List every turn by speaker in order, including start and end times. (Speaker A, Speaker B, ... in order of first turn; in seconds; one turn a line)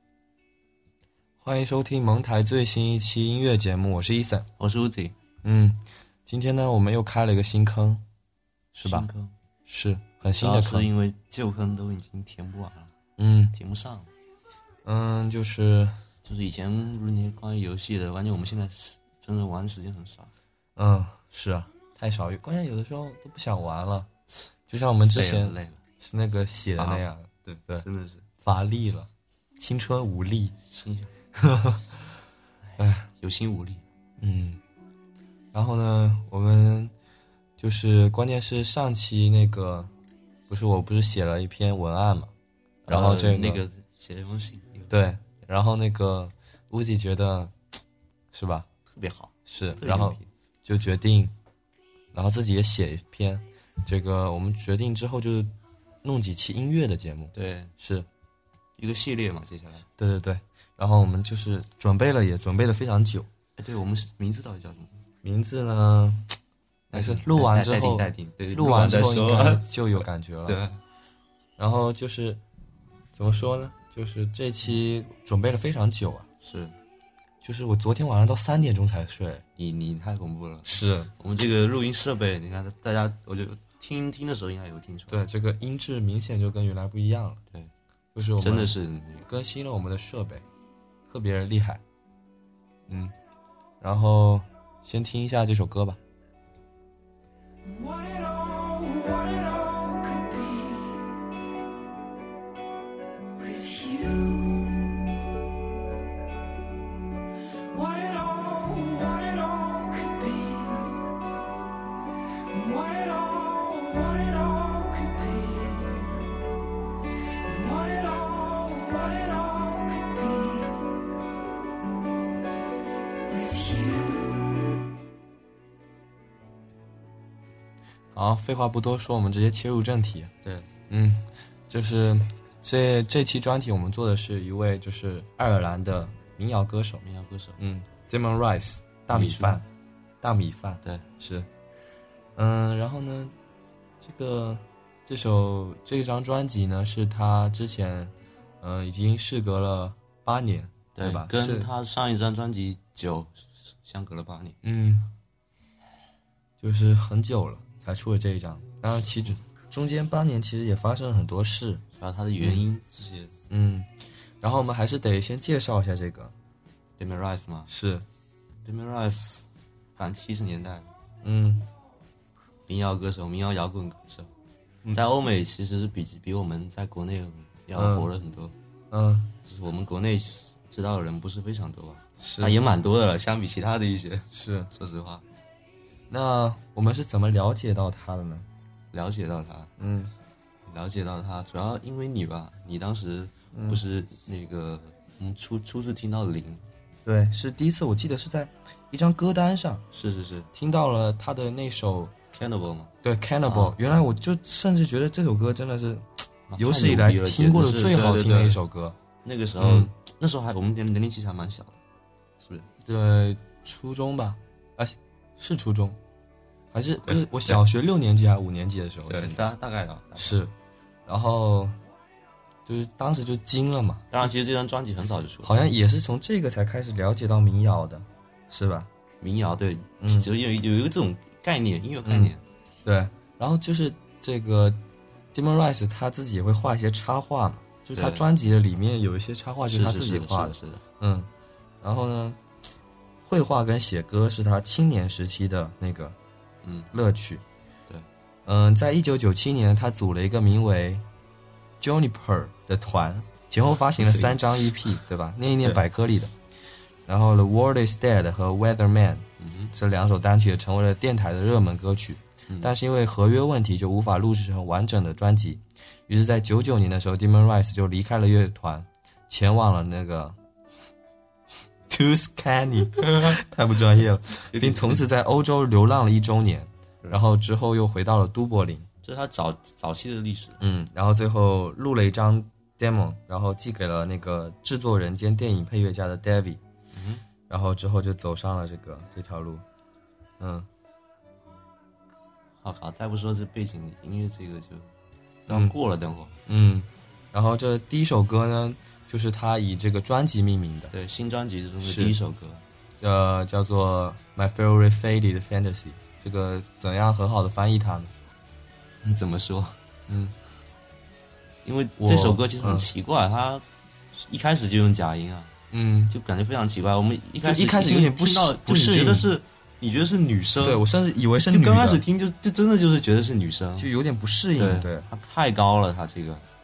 Speaker A: 1.4-4.5
Speaker B: 4.6-5.2
Speaker A: 5.4-8.1
Speaker B: 8.7-9.3
Speaker A: 9.7-10.9
Speaker B: 10.4-12.9
Speaker A: 13.2-13.6
Speaker B: 13.5-14.1
Speaker A: 14.8-16.0
Speaker B: 16.2-20.3
Speaker A: 20.8-24.1
Speaker A: 24.7-27.9
Speaker B: 25.1-25.8
Speaker B: 26.8-28.2
Speaker A: 28.4-30.6
Speaker B: 30.7-31.2
Speaker A: 31.4-31.9
Speaker B: 32.7-33.8
Speaker A: 32.8-33.1
Speaker A: 34.2-34.6
Speaker A: 35.5-36.9
Speaker A: 37.6-39.9
Speaker A: 40.5-42.3
Speaker A: 42.9-43.6
Speaker B: 42.9-45.1
Speaker A: 44.9-47.5
Speaker A: 48.3-48.7
Speaker B: 48.9-50.3
Speaker A: 49.5-51.3
Speaker A: 52.1-58.1
Speaker B: 57.3-57.7
Speaker B: 58.8-59.9
Speaker A: 60.0-63.3
Speaker B: 63.6-65.0
Speaker A: 65.2-66.4
Speaker B: 66.9-69.7
Speaker A: 66.9-70.6
Speaker B: 70.5-70.8
Speaker A: 71.6-72.4
Speaker A: 73.1-76.3
Speaker B: 76.4-76.8
Speaker A: 77.4-79.4
Speaker B: 79.6-85.2
Speaker A: 80.7-81.1
Speaker A: 85.1-87.4
Speaker B: 87.5-89.3
Speaker A: 88.2-90.4
Speaker A: 91.1-91.8
Speaker A: 92.9-93.2
Speaker A: 93.8-96.0
Speaker C: 97.6-101.3
Speaker C: 103.3-105.0
Speaker C: 107.7-111.2
Speaker C: 112.5-116.5
Speaker C: 117.4-121.1
Speaker C: 123.2-124.9
Speaker A: 128.1-130.3
Speaker A: 130.9-137.0
Speaker B: 137.0-137.6
Speaker A: 137.6-139.7
Speaker B: 139.1-139.6
Speaker A: 140.2-141.5
Speaker A: 142.4-143.3
Speaker A: 144.0-151.7
Speaker B: 150.9-154.6
Speaker A: 154.6-155.1
Speaker A: 156.6-161.8
Speaker B: 162.0-163.3
Speaker A: 163.5-166.3
Speaker B: 167.0-167.7
Speaker A: 167.7-168.1
Speaker B: 168.7-170.9
Speaker A: 171.2-171.7
Speaker B: 172.7-174.3
Speaker B: 174.9-178.6
Speaker A: 177.8-178.1
Speaker A: 178.9-179.3
Speaker B: 179.5-185.2
Speaker A: 182.2-182.6
Speaker A: 184.3-184.7
Speaker A: 186.1-188.5
Speaker B: 188.9-189.7
Speaker A: 189.8-190.1
Speaker B: 190.7-196.6
Speaker A: 193.5-193.8
Speaker A: 197.1-199.9
Speaker B: 199.9-200.5
Speaker A: 200.5-202.1
Speaker B: 202.3-202.9
Speaker A: 203.0-209.0
Speaker B: 203.5-203.8
Speaker B: 206.5-208.6
Speaker B: 209.2-211.8
Speaker A: 209.6-209.9
Speaker B: 212.4-212.7
Speaker A: 212.8-216.0
Speaker A: 216.7-219.5
Speaker B: 217.0-217.6
Speaker B: 219.1-220.4
Speaker A: 220.2-220.5
Speaker A: 221.1-221.8
Speaker A: 222.7-224.4
Speaker B: 224.1-225.5
Speaker A: 225.4-228.9
Speaker B: 229.2-232.4
Speaker A: 230.0-230.3
Speaker A: 232.0-232.3
Speaker A: 232.8-234.8
Speaker A: 235.3-241.3
Speaker B: 237.9-238.3
Speaker B: 239.7-240.8
Speaker A: 241.8-242.4
Speaker A: 243.2-246.2
Speaker B: 246.6-246.9
Speaker A: 246.9-247.4
Speaker A: 248.5-251.1
Speaker A: 251.8-256.4
Speaker B: 254.0-255.0
Speaker A: 257.1-270.4
Speaker B: 259.4-259.7
Speaker B: 262.5-262.7
Speaker A: 271.9-278.9
Speaker B: 274.5-275.0
Speaker B: 279.0-280.6
Speaker A: 280.6-286.6
Speaker B: 286.9-287.2
Speaker A: 287.5-289.6
Speaker A: 290.4-290.7
Speaker B: 292.6-294.9
Speaker B: 295.5-296.4
Speaker A: 295.5-295.8
Speaker A: 296.5-300.9
Speaker B: 300.9-302.6
Speaker A: 301.8-302.2
Speaker A: 303.0-308.1
Speaker B: 309.0-309.8
Speaker A: 310.1-310.4
Speaker B: 311.6-315.5
Speaker A: 312.0-312.9
Speaker A: 315.7-316.1
Speaker B: 316.1-320.8
Speaker A: 317.4-319.3
Speaker A: 320.6-322.0
Speaker B: 321.4-323.9
Speaker A: 323.8-325.1
Speaker B: 324.6-326.5